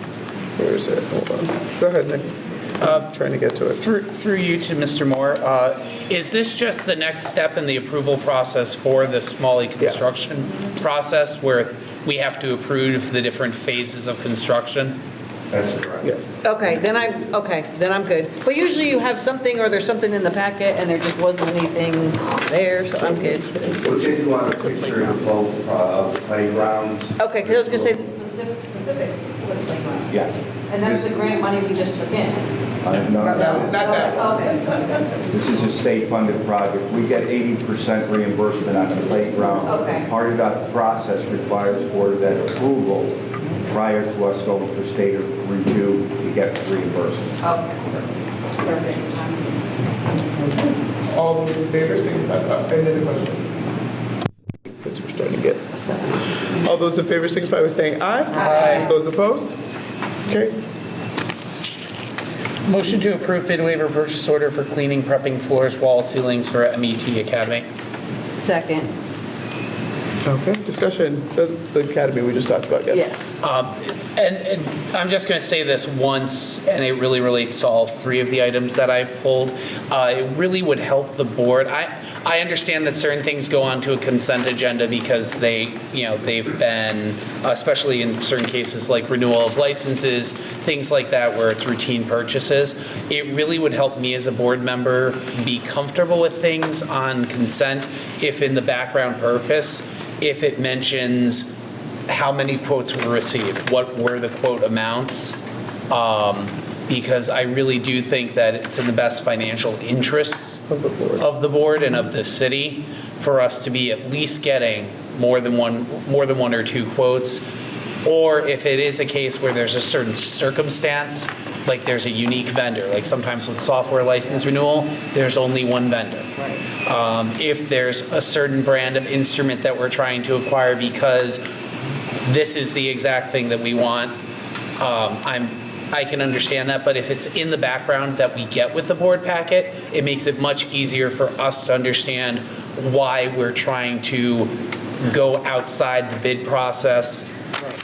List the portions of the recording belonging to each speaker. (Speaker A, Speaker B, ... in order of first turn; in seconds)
Speaker A: 0.6-3.8, 9.8-10.1, 16.0-16.4, 22.9-24.0, 24.5-25.2, 32.9-35.3, 50.1-53.8, 54.7-59.5, 60.3-60.6, 70.2-73.1, 110.7-111.2
Speaker B: 2.8-3.0, 3.7-15.0, 58.3-58.9, 62.6-67.7, 73.4-101.5, 102.1-105.4, 105.9-110.6, 111.2-117.4, 118.0-126.3, 126.8-131.4, 132.2-134.1, 134.8-147.3
Speaker C: 15.5-16.0, 23.8-28.0, 30.1-31.1, 32.8-34.0, 35.3-47.4
Speaker D: 16.4-23.6, 27.2-30.2, 30.7-32.6, 33.3-35.0, 39.6-40.1, 47.4-48.0, 48.6-49.6, 58.3-58.8, 68.3-68.9, 72.9-73.4